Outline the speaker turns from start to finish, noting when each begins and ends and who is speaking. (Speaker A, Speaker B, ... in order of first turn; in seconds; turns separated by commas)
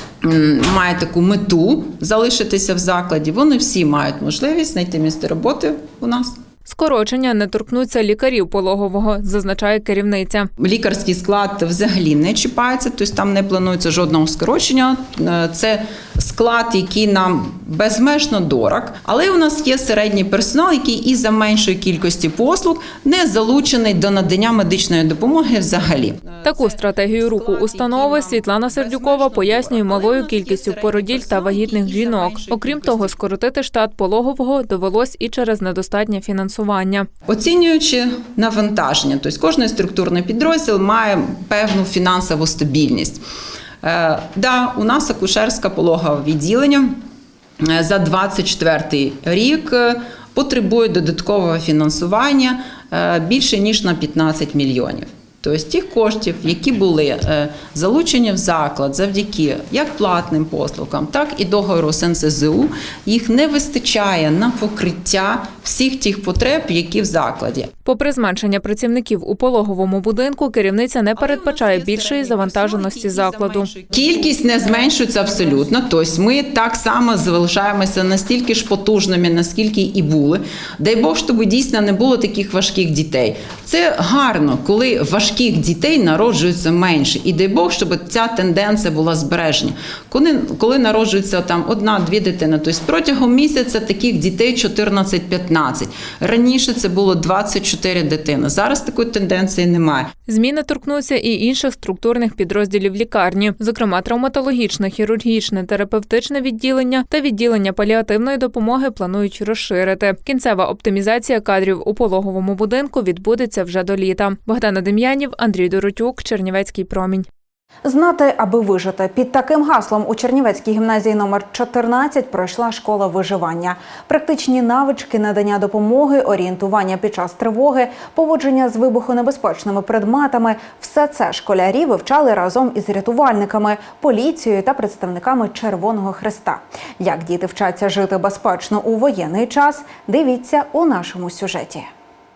Speaker A: 0.2-6.3, Speaker B: 6.7-10.5, Speaker A: 10.6-33.2, Speaker B: 26.4-37.1, Speaker A: 37.3-43.2, Speaker A: 43.8-47.0, Speaker A: 47.6-67.7, Speaker B: 67.8-73.7, Speaker A: 71.2-100.1, Speaker B: 100.3-117.3, Speaker C: 117.8-141.9